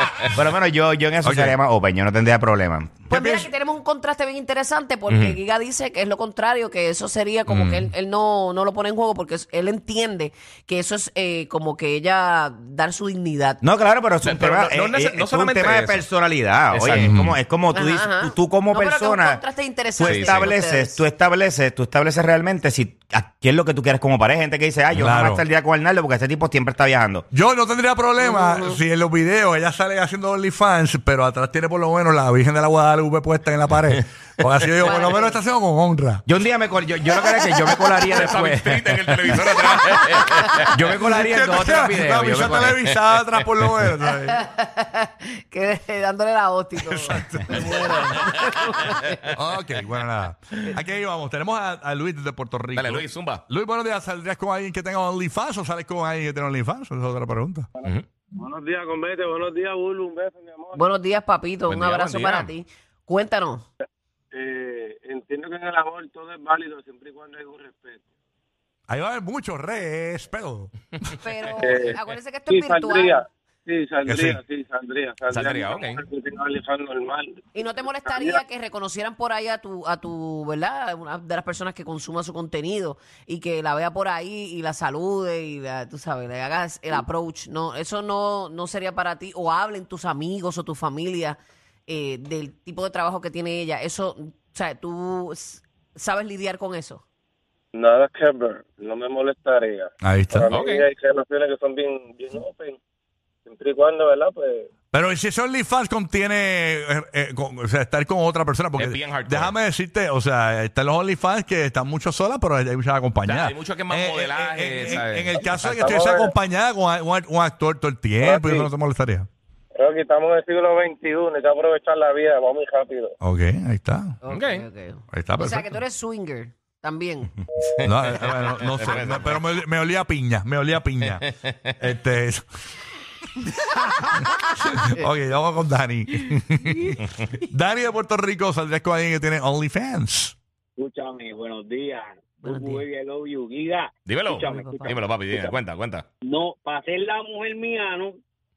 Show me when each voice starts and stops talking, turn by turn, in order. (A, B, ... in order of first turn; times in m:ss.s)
0:00.2-0:03.0 A
0:01.2-0:01.5 B
0:03.1-0:13.6 C
0:03.1-0:03.5 B
0:05.1-0:05.4 D
0:13.6-0:19.4 A
0:14.2-0:16.0 D
0:16.7-0:17.3 D
0:17.0-0:17.3 B
0:17.7-0:21.0 C
0:20.0-0:27.2 A
0:20.0-0:20.5 D
0:24.9-0:25.4 B
0:27.3-0:36.2 B
0:28.2-0:28.8 C
0:34.8-0:35.4 C
0:36.3-0:39.0 A
0:38.1-0:40.8 D
0:40.7-0:42.7 A
0:40.9-0:44.4 B
0:42.5-0:42.9 D
0:44.2-0:49.2 C
0:46.8-0:47.8 B
0:49.3-0:57.7 B
0:52.7-0:53.4 D
0:57.8-1:00.9 E
1:00.8-1:03.6 C
1:01.7-1:02.5 D
1:04.3-1:08.0 E
1:08.9-1:10.7 B
1:11.2-1:13.2 C
1:11.6-1:12.0 E
1:12.5-1:18.4 E
1:14.0-1:14.4 B
1:15.3-1:16.0 D
1:17.5-1:37.0 C
1:37.7-1:42.8 E
1:40.0-1:40.5 B
1:40.5-1:40.8 D
1:43.4-1:44.7 E
1:44.9-1:59.3 B
1:48.8-1:49.5 D
1:53.2-1:55.9 D
1:55.4-1:56.3 E
1:58.2-1:58.7 E
1:59.8-2:03.1 E
2:03.2-2:04.2 B
2:04.2-2:07.3 C
2:04.3-2:04.7 D
2:05.1-2:05.7 B
2:07.6-2:09.6 D
2:07.8-2:11.2 B
2:11.0-2:11.8 D
2:11.8-2:12.4 B
2:13.8-2:15.0 C
2:14.3-2:20.3 B
2:20.8-2:25.6 F
2:22.4-2:22.8 C
2:24.0-2:26.1 D
2:24.3-2:25.0 C
2:26.2-2:28.2 F